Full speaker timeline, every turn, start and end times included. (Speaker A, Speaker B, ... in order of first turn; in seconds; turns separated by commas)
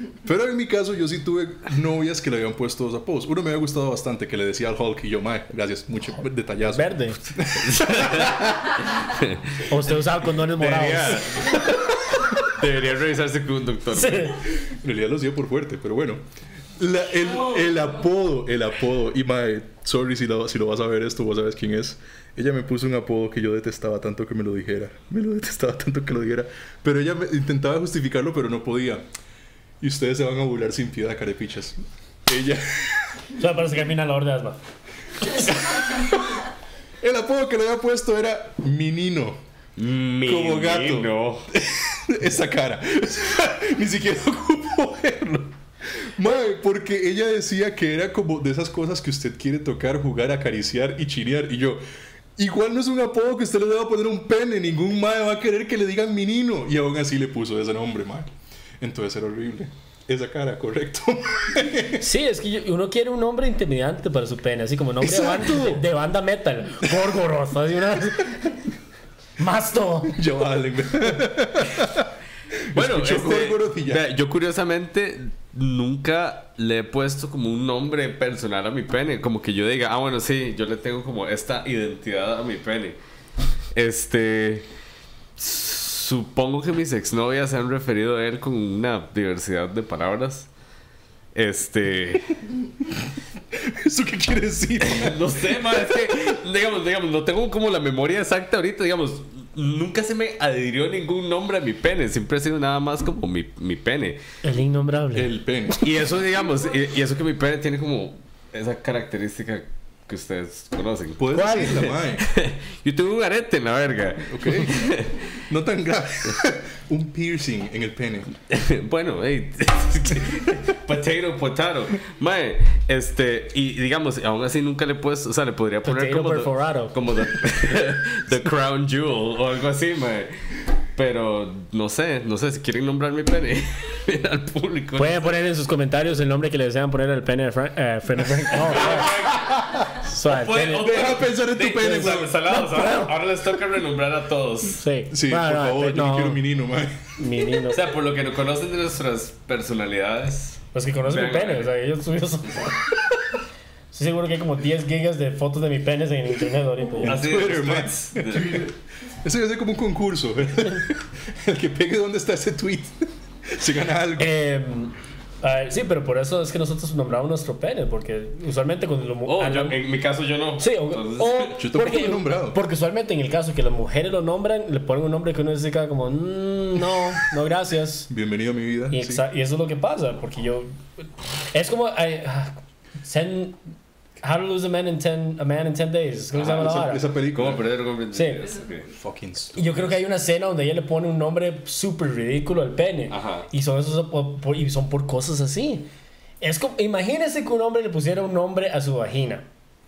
Speaker A: 0.2-8.4, Speaker B: 6.6-7.2, Speaker C: 7.6-9.4, Speaker B: 9.7-11.6, Speaker C: 10.4-14.3, Speaker B: 13.9-14.4, Speaker A: 14.6-16.2, Speaker A: 16.8-29.1, Speaker A: 29.8-33.2, Speaker B: 33.4-34.6, Speaker A: 35.6-36.3, Speaker A: 37.0-39.4, Speaker C: 39.8-41.5, Speaker A: 40.2-51.8, Speaker A: 52.4-62.0, Speaker B: 62.0-68.6, Speaker A: 65.0-65.8, Speaker A: 66.8-67.1, Speaker B: 69.4-70.2, Speaker A: 70.1-72.1, Speaker A: 72.7-74.0, Speaker C: 72.8-83.0, Speaker C: 83.8-84.7, Speaker C: 85.4-90.5, Speaker C: 91.3-92.3, Speaker A: 92.4-92.9, Speaker A: 93.5-95.2, Speaker C: 94.8-104.2, Speaker B: 104.4-105.3, Speaker A: 105.1-105.8, Speaker C: 105.8-115.3, Speaker A: 111.2-112.3, Speaker B: 111.3-111.9, Speaker A: 114.2-118.3, Speaker C: 118.5-130.3, Speaker B: 125.8-126.9, Speaker C: 131.0-135.3, Speaker B: 135.0-139.2, Speaker C: 138.6-139.6, Speaker A: 139.4-139.8, Speaker B: 139.9-141.1, Speaker C: 140.2-144.8, Speaker A: 140.8-142.4, Speaker B: 142.4-143.2, Speaker B: 144.8-146.4, Speaker A: 145.1-147.0, Speaker B: 147.2-147.8, Speaker C: 147.6-151.7, Speaker B: 150.7-152.9, Speaker B: 153.9-157.2, Speaker A: 157.0-164.3, Speaker C: 157.0-158.7, Speaker B: 164.2-169.8, Speaker C: 169.3-171.5, Speaker B: 170.6-178.1, Speaker A: 171.5-172.6, Speaker A: 178.1-179.2, Speaker B: 178.9-180.7, Speaker B: 181.5-183.6, Speaker B: 184.2-187.0, Speaker C: 186.3-186.7, Speaker A: 186.4-187.7, Speaker C: 187.3-188.9, Speaker B: 188.1-188.4, Speaker A: 188.9-189.9, Speaker B: 189.6-195.9, Speaker C: 193.1-193.5, Speaker B: 196.4-199.4